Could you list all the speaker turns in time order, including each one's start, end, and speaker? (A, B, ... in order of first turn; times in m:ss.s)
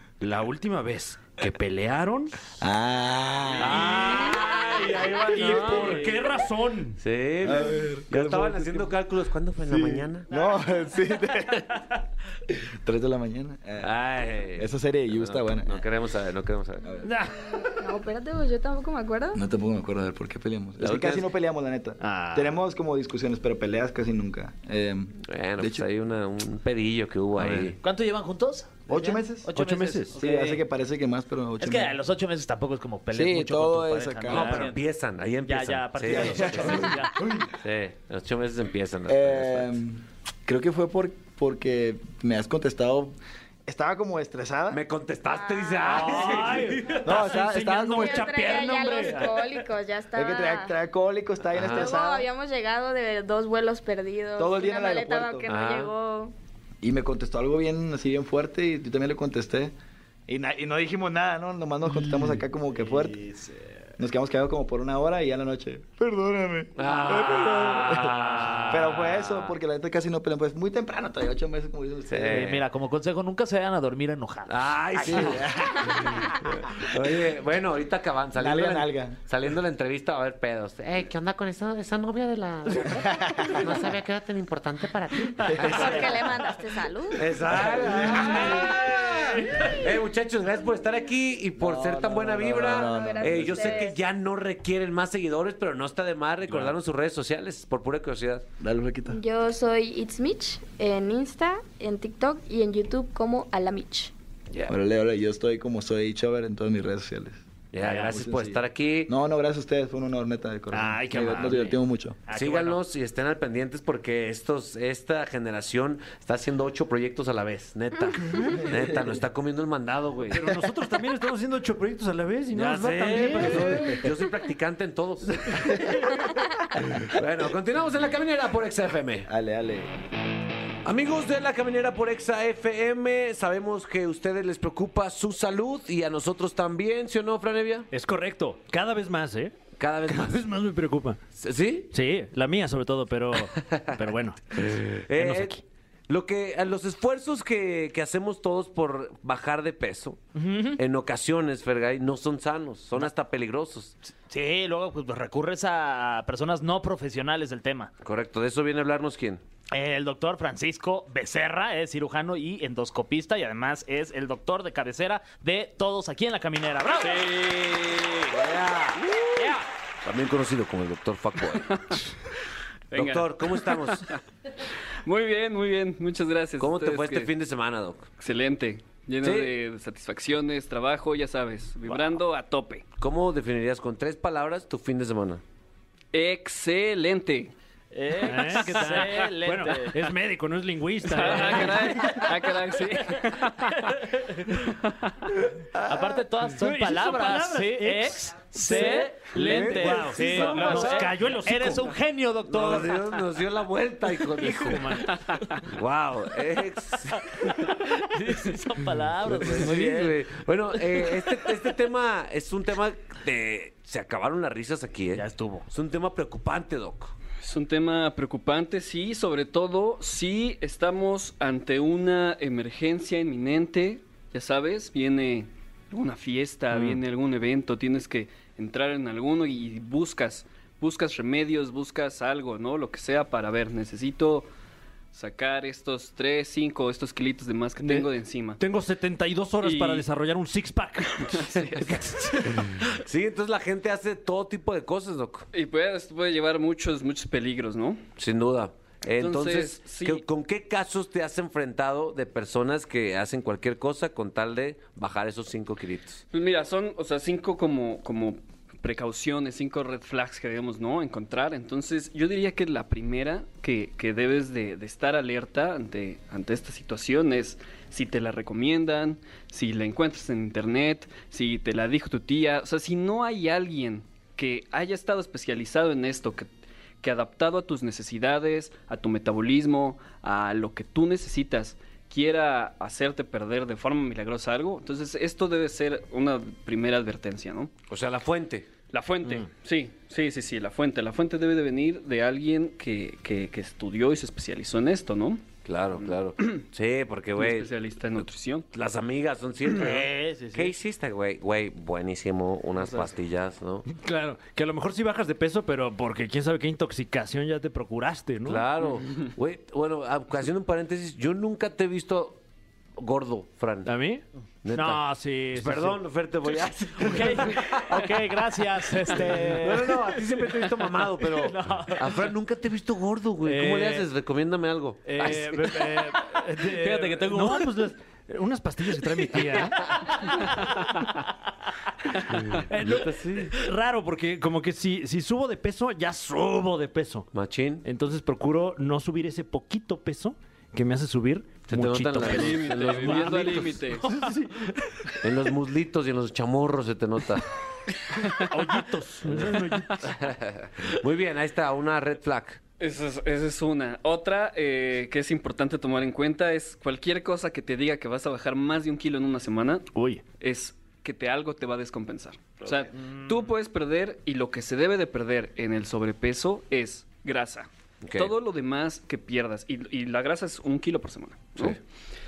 0:00.2-0:02.3 A
0:02.6-0:04.3 B
0:03.6-0:06.2 C
0:03.6-0:07.0 A
0:05.6-0:05.9 B
0:07.0-0:10.3 C
0:07.4-0:09.0 B
0:09.6-0:11.8 B
0:12.5-0:13.9 B
0:13.8-0:16.9 C
0:14.5-0:15.9 B
0:16.8-0:17.1 B
0:17.0-0:17.8 A
0:17.8-0:19.4 D
0:19.3-0:25.9 B
0:20.8-0:21.3 C
0:22.0-0:22.6 A
0:25.3-0:27.8 C
0:27.4-0:27.7 A
0:27.8-0:30.6 E
0:28.9-0:29.5 B
0:29.5-0:30.2 A
0:30.1-0:32.0 B
0:31.6-0:34.8 E
0:33.1-0:34.7 B
0:34.3-0:39.7 C
0:34.3-0:34.6 A
0:35.4-0:37.2 E
0:36.0-0:37.5 B
0:39.1-0:43.1 B
0:43.6-0:44.8 B
0:44.7-0:47.0 C
0:45.3-0:46.0 D
0:45.8-0:49.6 A
0:47.0-0:48.3 B
0:47.9-0:50.8 D
0:50.1-0:52.3 B
0:51.5-0:51.9 C
0:51.6-0:56.3 D
0:54.4-0:55.5 B
0:55.5-0:55.9 C
0:56.8-0:59.7 B
1:00.3-1:03.3 B
1:02.9-1:03.6 E
1:04.0-1:12.5 B
1:06.8-1:09.5 C
1:12.1-1:12.6 C
1:12.3-1:15.4 E
1:14.4-1:26.5 C
1:15.0-1:16.9 B
1:18.3-1:19.2 B
1:23.0-1:23.6 B
1:25.5-1:26.0 B
1:25.6-1:27.3 D
1:27.1-1:38.4 C
1:27.5-1:28.7 B
1:28.2-1:28.6 A
1:29.4-1:29.7 A
1:31.6-1:33.9 B
1:32.7-1:34.0 D
1:38.6-1:39.2 B
1:39.1-1:44.1 D
1:44.7-1:47.4 B
1:47.7-1:49.1 C
1:47.8-1:48.1 A
1:48.0-1:52.2 B
1:50.7-1:51.8 A
1:52.3-1:52.7 A
1:52.3-1:52.8 E
1:52.3-2:00.6 C
1:58.7-1:59.2 B
2:00.3-2:04.0 A
2:02.5-2:06.0 C
2:05.6-2:06.0 B
2:06.8-2:09.3 C
2:09.2-2:09.9 B
2:10.8-2:17.9 C
2:17.9-2:19.5 A
2:19.8-2:20.4 C
2:20.1-2:21.2 A
2:21.4-2:21.9 C
2:21.9-2:24.6 A
2:23.4-2:24.0 C
2:24.5-2:30.2 C
2:25.1-2:25.6 A
2:30.3-2:30.8 E
2:30.8-2:34.0 C
2:34.3-2:37.9 E
2:38.0-2:39.4 C
2:39.7-2:47.3 E
2:47.1-2:48.4 F
2:48.3-2:52.0 C
2:51.6-2:52.0 F
2:52.9-2:54.2 F
2:52.9-2:54.1 C
2:55.0-2:57.3 F
2:56.6-2:58.1 C
2:58.2-3:02.8 F
2:59.2-2:59.5 C
3:03.0-3:05.4 C
3:06.1-3:07.5 F
3:07.9-3:10.1 E
3:08.2-3:12.8 A
3:11.1-3:13.9 F
3:11.2-3:11.6 E
3:13.6-3:14.6 A
3:15.8-3:16.1 C
3:15.8-3:23.1 E
3:16.5-3:21.9 A
3:19.3-3:21.1 C
3:22.4-3:25.0 C
3:24.4-3:25.6 A
3:25.6-3:27.3 C
3:27.8-3:30.2 E
3:29.3-3:37.1 C
3:35.1-3:35.6 E
3:37.4-3:54.5 F
3:46.7-3:47.0 A
3:55.1-3:58.6 F
3:57.8-4:02.9 A
3:59.6-4:00.0 F
4:01.1-4:02.0 F
4:02.6-4:05.5 C
4:05.5-4:08.0 F
4:08.2-4:16.2 C
4:09.1-4:10.2 F
4:16.3-4:36.5 F
4:37.0-4:47.7 F
4:47.9-4:48.7 C
4:48.9-4:56.6 F
4:55.6-4:58.2 C
4:57.4-4:58.7 F
4:58.7-5:03.8 C
4:59.7-5:00.7 E
5:03.9-5:08.7 A
5:08.4-5:12.4 C
5:13.0-5:13.9 C
5:13.8-5:16.0 A
5:14.6-5:18.1 C
5:17.0-5:19.9 E
5:17.0-5:17.5 A
5:19.1-5:19.9 A
5:19.2-5:26.0 C
5:21.5-5:22.1 A
5:21.6-5:21.9 E
5:23.4-5:24.1 A
5:25.0-5:31.3 A
5:26.6-5:27.7 E
5:32.0-5:37.3 A
5:32.4-5:33.5 C
5:37.3-5:37.8 C
5:37.8-5:45.2 A
5:41.7-5:43.7 C
5:42.2-5:44.1 F
5:45.2-5:47.5 C
5:48.1-5:50.2 A
5:50.0-5:52.6 C
5:52.8-6:11.8 F
5:59.9-6:00.2 A
6:02.6-6:03.3 E
6:08.0-6:08.3 C